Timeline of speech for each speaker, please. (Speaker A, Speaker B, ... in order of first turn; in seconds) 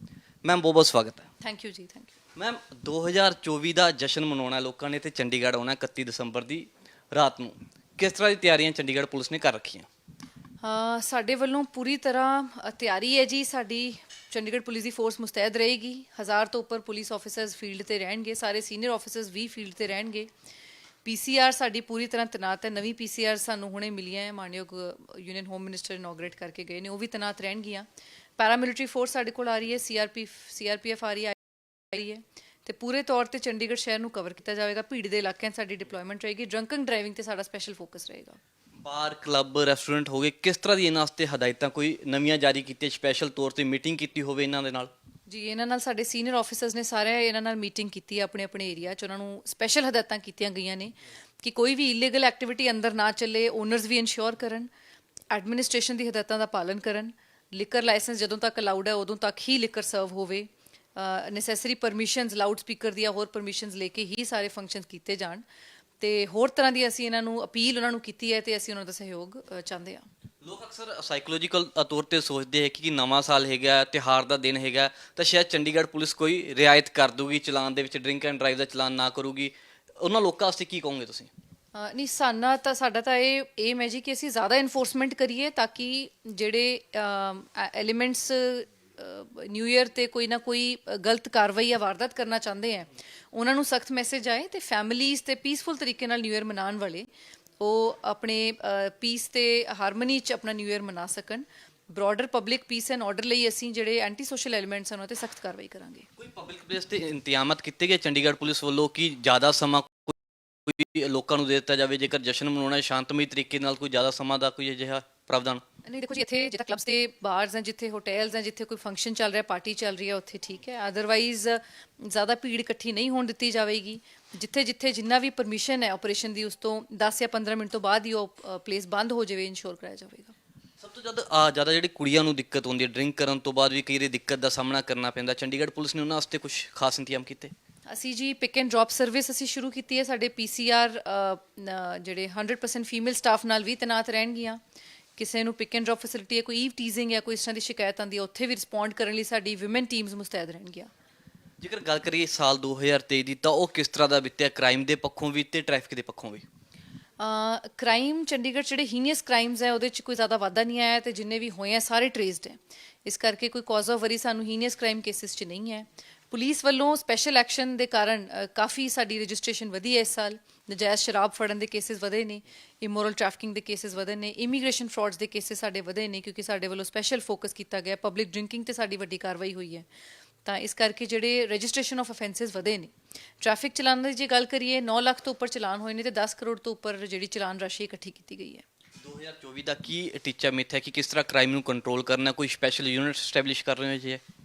Speaker A: 0.4-1.3, 2.4-9.9, 38.9-44.9, 70.4-81.3, 106.2-115.6, 130.8-137.5, 151.6-156.5, 189.0-194.2
Speaker B: 1.4-2.1, 10.6-20.3, 21.0-27.9, 28.4-31.4, 31.9-38.4, 45.3-54.7, 55.3-65.5, 66.0-70.1, 81.8-97.1, 97.6-106.1, 115.8-130.3, 137.9-144.6, 145.2-150.9, 157.2-179.9, 180.4-188.6